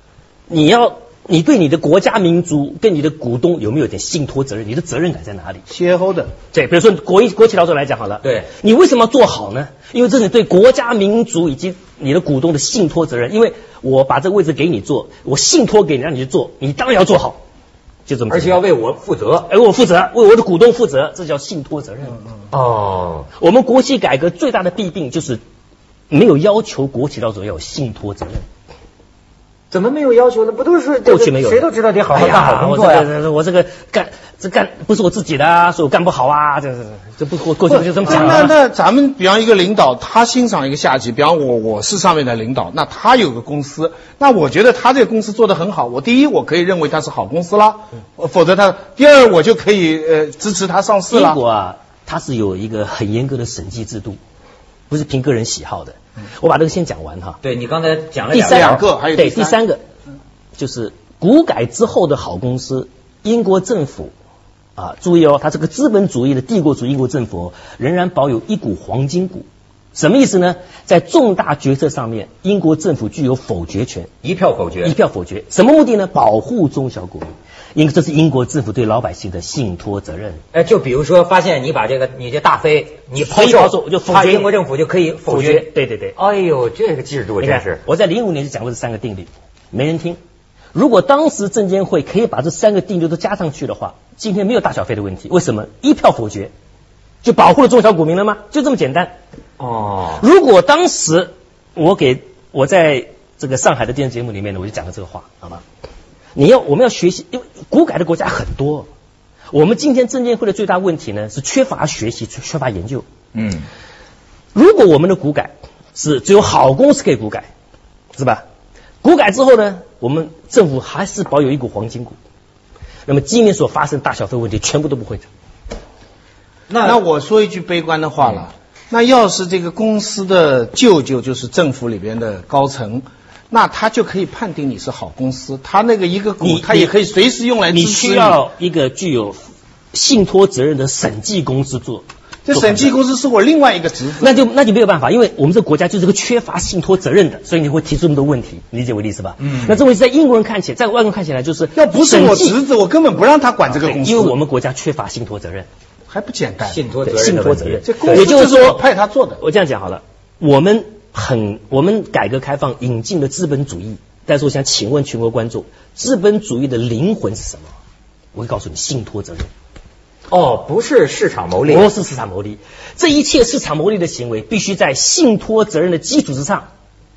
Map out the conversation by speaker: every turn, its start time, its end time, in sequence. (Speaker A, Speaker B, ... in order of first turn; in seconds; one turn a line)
Speaker A: 0.5-5.6
Speaker B: 5.7-6.3
Speaker A: 6.5-17.4
Speaker C: 8.2-8.5
Speaker A: 18.1-18.6
Speaker C: 18.3-19.5
Speaker A: 19.5-22.2
Speaker C: 22.5-23.3
Speaker A: 23.4-25.4
Speaker A: 26.1-28.4
Speaker C: 29.7-33.1
Speaker A: 31.0-38.5
Speaker B: 37.7-51.4
Speaker A: 51.1-54.2
Speaker A: 54.9-57.4
Speaker C: 57.4-58.8
Speaker A: 58.3-59.8
Speaker B: 58.4-59.6
Speaker A: 60.6-64.1
Speaker A: 64.8-74.1
Speaker C: 74.2-75.0
Speaker A: 74.8-80.4
Speaker C: 80.5-87.8
Speaker A: 83.2-84.5
Speaker A: 85.3-86.2
Speaker A: 87.4-90.2
Speaker A: 90.7-96.5
Speaker A: 97.2-99.1
Speaker C: 99.6-100.2
Speaker A: 100.2-105.6
Speaker A: 106.3-108.9
Speaker A: 109.5-113.0
Speaker C: 113.3-113.7
Speaker A: 114.5-117.5
Speaker A: 118.2-118.4
Speaker A: 119.0-122.2
Speaker A: 123.1-125.3
Speaker C: 126.7-127.0
Speaker B: 126.8-138.4
Speaker A: 136.4-136.9
Speaker A: 137.7-142.9
Speaker B: 142.5-144.3
Speaker A: 144.2-152.6
Speaker C: 149.4-149.8
Speaker B: 151.8-154.4
Speaker A: 153.7-155.7
Speaker B: 156.1-156.8
Speaker C: 156.7-158.3
Speaker A: 157.1-158.8
Speaker B: 157.8-159.4
Speaker A: 159.4-167.7
Speaker A: 168.3-169.5
Speaker C: 170.3-171.9
Speaker A: 171.7-176.7